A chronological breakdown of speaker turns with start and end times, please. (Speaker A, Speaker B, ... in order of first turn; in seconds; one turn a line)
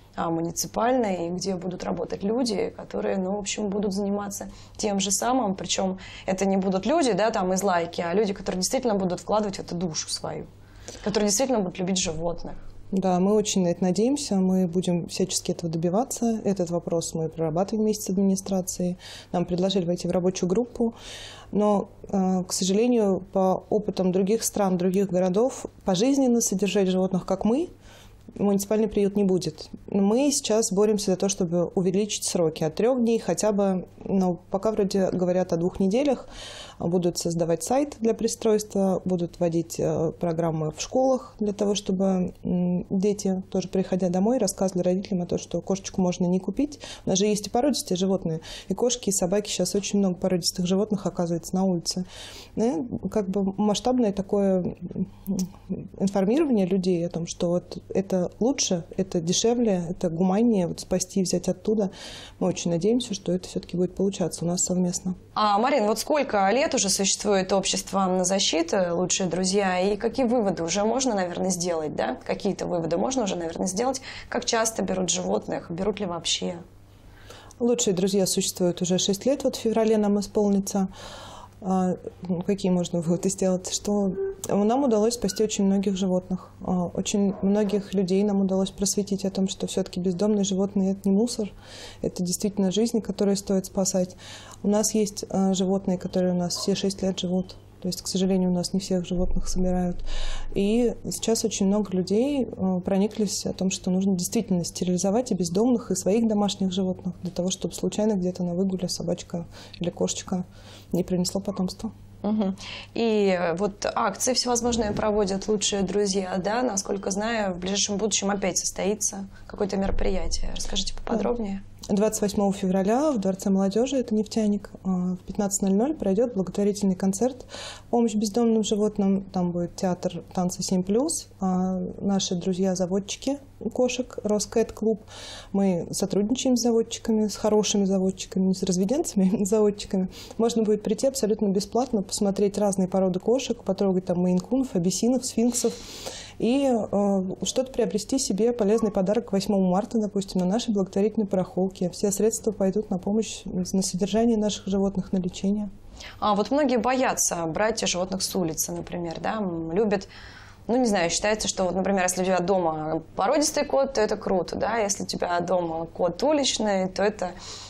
Speaker A: 0.2-10.5
Speaker A: 11.0-12.6
Speaker B: 12.9-20.9
Speaker B: 21.5-27.7
Speaker B: 28.4-65.2
Speaker A: 65.3-76.6
Speaker B: 77.6-80.9
Speaker B: 81.6-111.9
Speaker A: 112.2-121.6
Speaker B: 121.9-145.8
Speaker B: 146.4-155.7
Speaker A: 156.2-160.1
Speaker A: 160.7-167.3